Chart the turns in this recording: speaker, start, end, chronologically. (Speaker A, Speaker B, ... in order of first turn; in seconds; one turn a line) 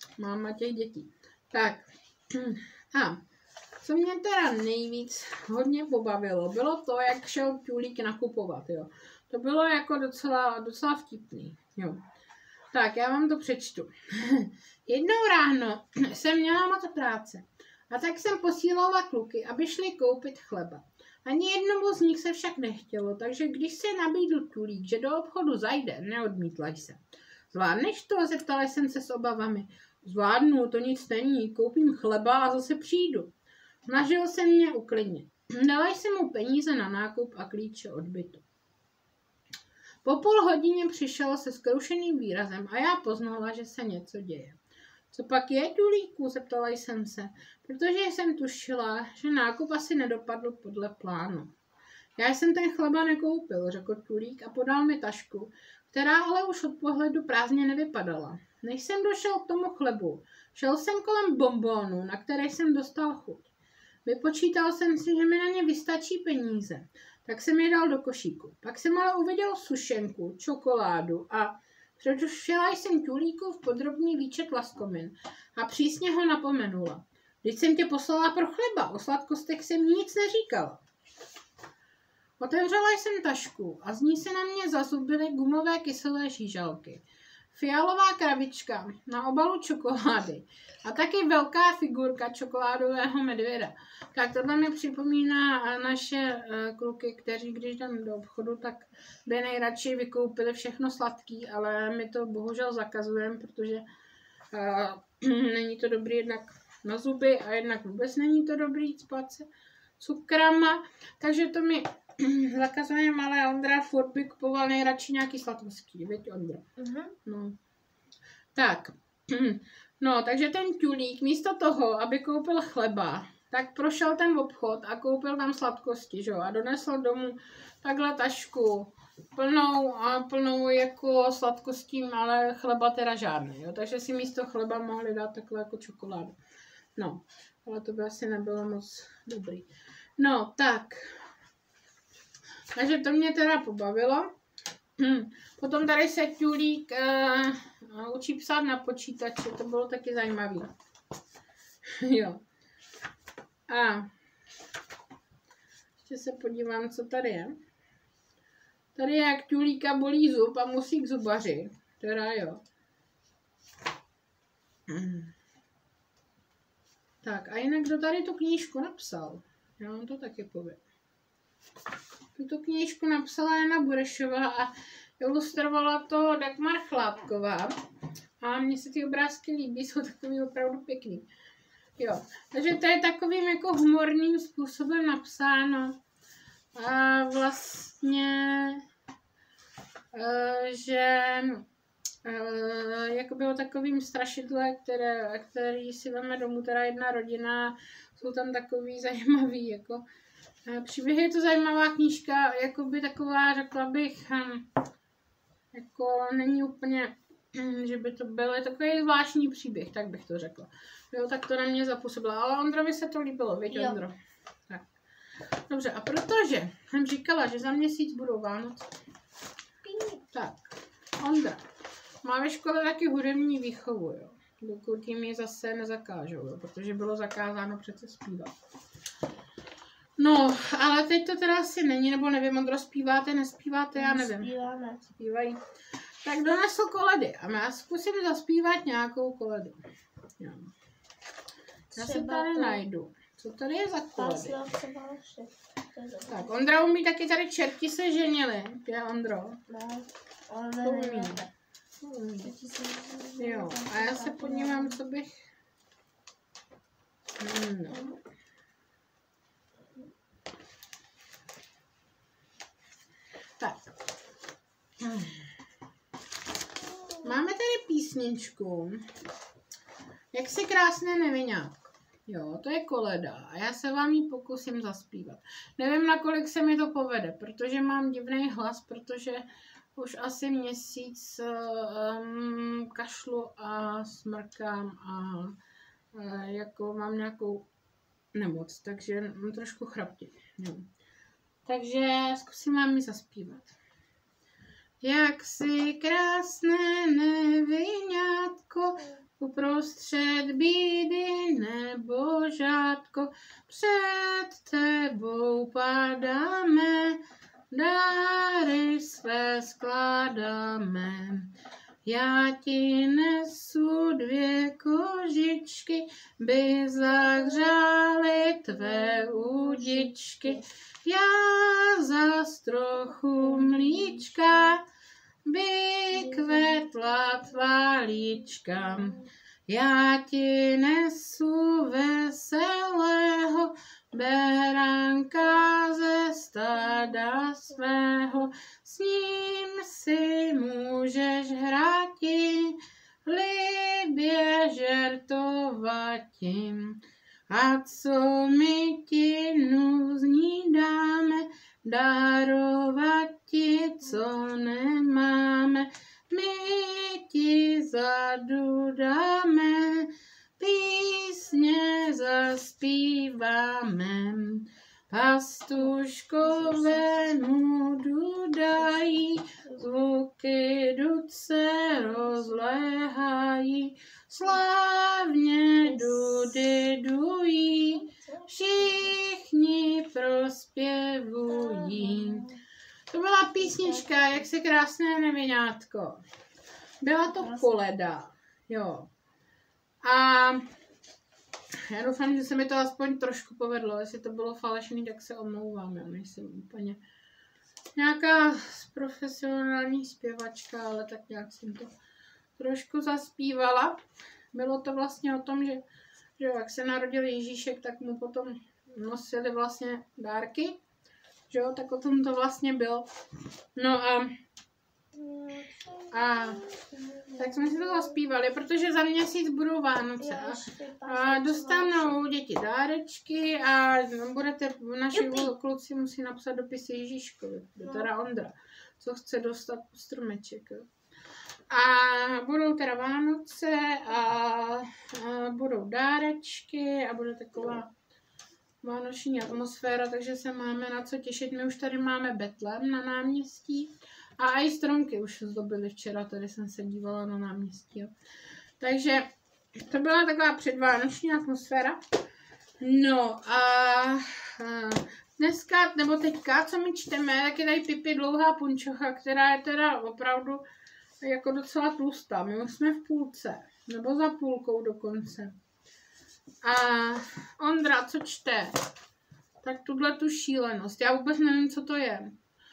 Speaker A: 0.2-3.2
Speaker A: 3.8-12.0
Speaker A: 12.7-27.0
Speaker A: 27.5-33.3
Speaker A: 33.9-38.5
Speaker A: 40.0-44.6
Speaker A: 45.1-51.5
Speaker A: 52.2-63.5
Speaker A: 64.0-80.8
Speaker A: 82.4-103.8
Speaker A: 104.5-109.5
Speaker A: 110.0-116.7
Speaker B: 116.8-117.1
Speaker A: 117.2-117.6
Speaker A: 118.5-136.4
Speaker A: 137.0-141.2
Speaker A: 142.8-144.3
Speaker A: 145.0-150.7
Speaker A: 152.0-152.4
Speaker A: 153.7-154.1
Speaker A: 156.0-157.6
Speaker A: 158.9-162.6
Speaker A: 164.9-165.3
Speaker A: 167.2-170.8
Speaker A: 172.3-177.7
Speaker A: 178.4-181.3
Speaker A: 182.0-186.0
Speaker A: 186.8-188.8
Speaker A: 190.1-191.6
Speaker A: 192.2-200.0
Speaker A: 200.7-204.7
Speaker A: 205.7-214.2
Speaker B: 213.7-214.0
Speaker A: 215.7-218.9
Speaker B: 219.8-220.2
Speaker A: 220.3-221.6
Speaker A: 222.2-228.5
Speaker A: 230.2-234.5
Speaker B: 233.9-235.0
Speaker A: 235.1-235.6
Speaker A: 236.2-239.8
Speaker A: 240.4-240.7
Speaker B: 241.9-242.8
Speaker A: 241.9-244.6
Speaker B: 244.2-246.5
Speaker A: 246.3-249.6
Speaker B: 249.7-251.5
Speaker A: 250.8-251.4
Speaker A: 252.0-252.5
Speaker B: 252.4-255.0
Speaker A: 253.4-255.4
Speaker A: 257.4-258.1
Speaker A: 265.0-265.5
Speaker A: 267.2-269.0
Speaker A: 270.3-285.6
Speaker A: 286.1-287.7
Speaker A: 288.3-290.9
Speaker A: 291.7-293.7
Speaker A: 295.0-311.5
Speaker A: 312.0-324.9
Speaker B: 318.7-320.7
Speaker B: 323.3-324.7
Speaker A: 325.5-382.5
Speaker B: 326.1-327.0
Speaker B: 366.4-367.3
Speaker B: 368.8-369.8
Speaker B: 371.9-372.5
Speaker B: 375.8-376.5
Speaker B: 378.0-379.1
Speaker B: 381.5-382.6
Speaker A: 383.1-386.2
Speaker B: 383.8-384.2
Speaker A: 387.0-389.1
Speaker B: 387.4-387.7
Speaker A: 390.0-390.6
Speaker A: 391.8-397.0
Speaker A: 398.0-401.9
Speaker A: 402.6-404.0
Speaker A: 404.5-405.8
Speaker A: 406.4-410.8
Speaker A: 411.5-413.1
Speaker A: 413.8-414.3
Speaker B: 415.1-418.2
Speaker A: 416.1-416.6
Speaker A: 417.4-430.9
Speaker B: 420.2-422.2
Speaker B: 425.1-425.5
Speaker A: 431.7-437.9
Speaker A: 438.8-448.1
Speaker A: 448.8-452.0
Speaker A: 452.8-460.6
Speaker A: 461.2-465.6
Speaker A: 466.6-468.8
Speaker A: 469.6-472.3